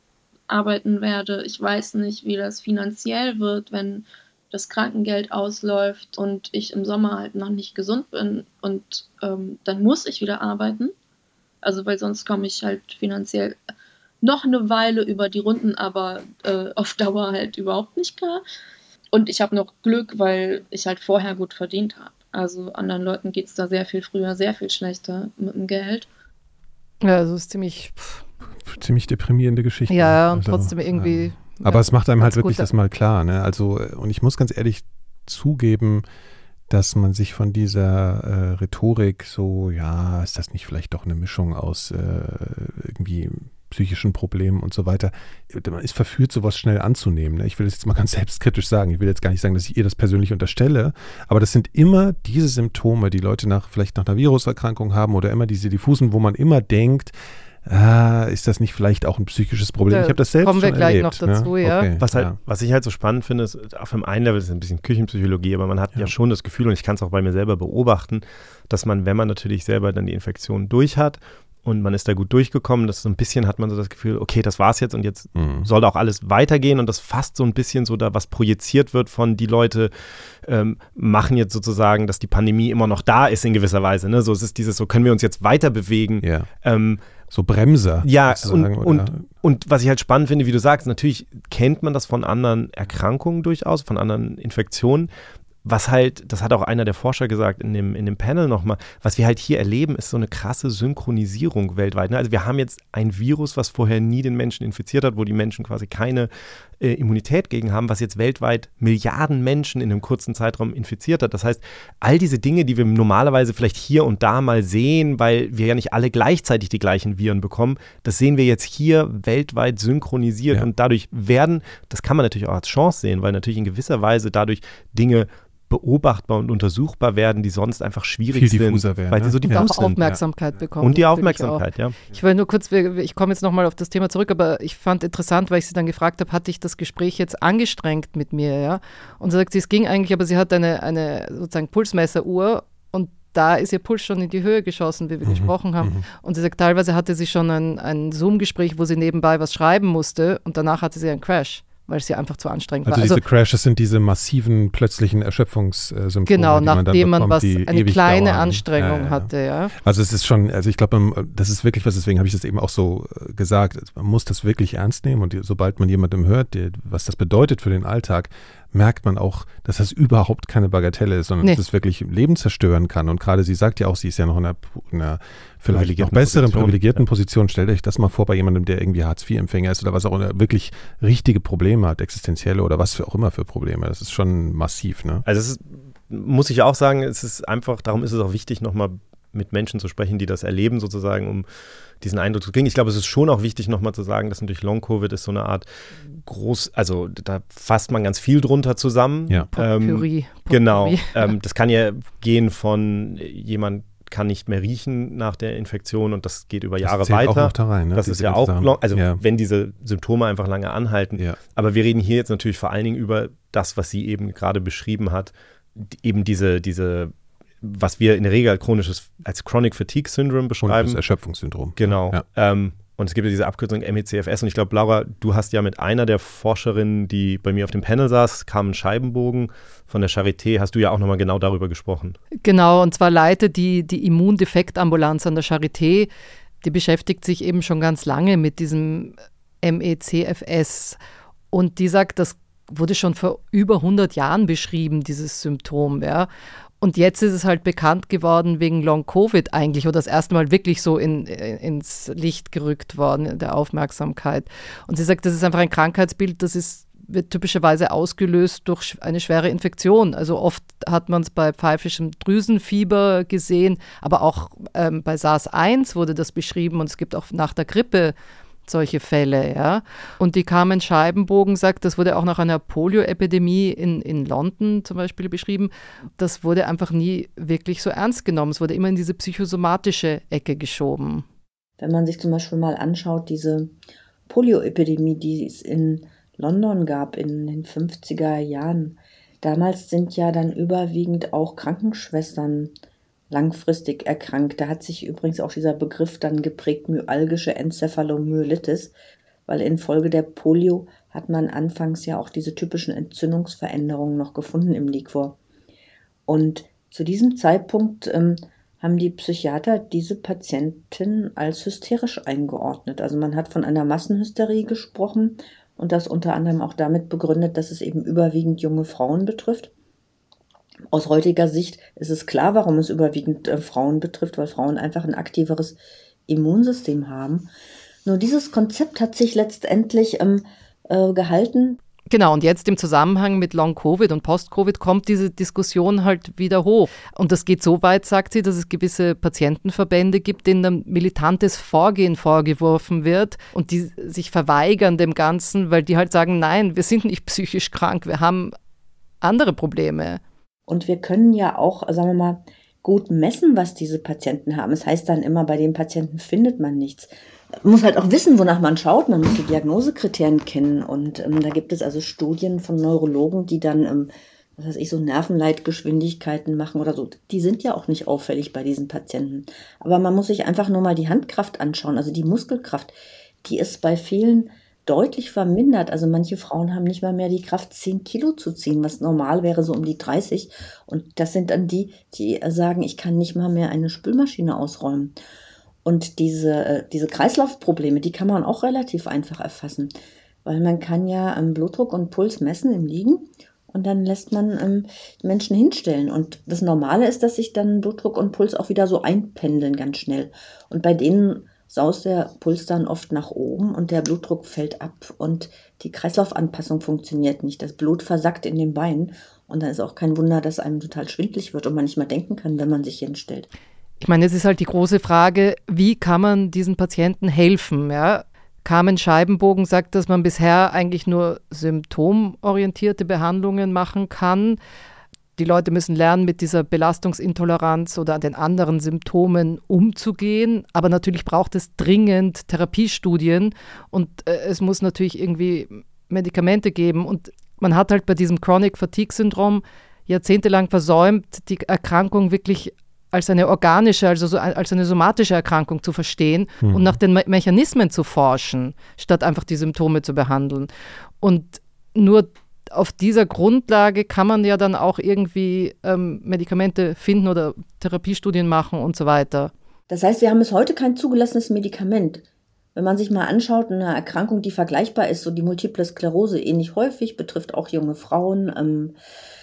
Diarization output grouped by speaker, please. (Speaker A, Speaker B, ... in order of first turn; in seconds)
Speaker A: 0.5-10.9, 11.6-13.6, 14.2-18.4, 19.1-26.1
Speaker B: 27.0-28.2, 29.9-32.7, 59.9-61.9, 129.5-153.2, 156.3-159.7, 199.5-201.3, 232.4-236.1, 236.6-241.0, 241.5-246.3, 246.8-268.1, 268.7-281.2, 332.1-348.5, 349.2-350.2, 414.0-424.6, 425.4-450.7, 451.2-459.5
Speaker C: 28.6-36.0, 36.7-62.4, 75.3-75.7, 86.2-86.5, 87.3-89.2, 128.3-130.2, 145.2-146.1, 152.8-185.2, 206.8-209.2, 220.6-222.2, 446.6-447.0
Speaker D: 62.0-79.9, 80.4-87.0, 88.0-95.1, 95.6-129.9, 130.8-132.0, 175.7-177.0, 185.2-191.4, 192.0-221.0, 221.8-232.2
Speaker E: 281.8-283.7, 284.3-292.7, 293.3-298.9, 299.5-305.4, 306.3-319.7, 320.9-327.5, 328.0-331.8, 350.7-357.1, 357.6-385.1, 385.8-389.9, 390.4-413.5, 459.9-462.2, 462.7-468.9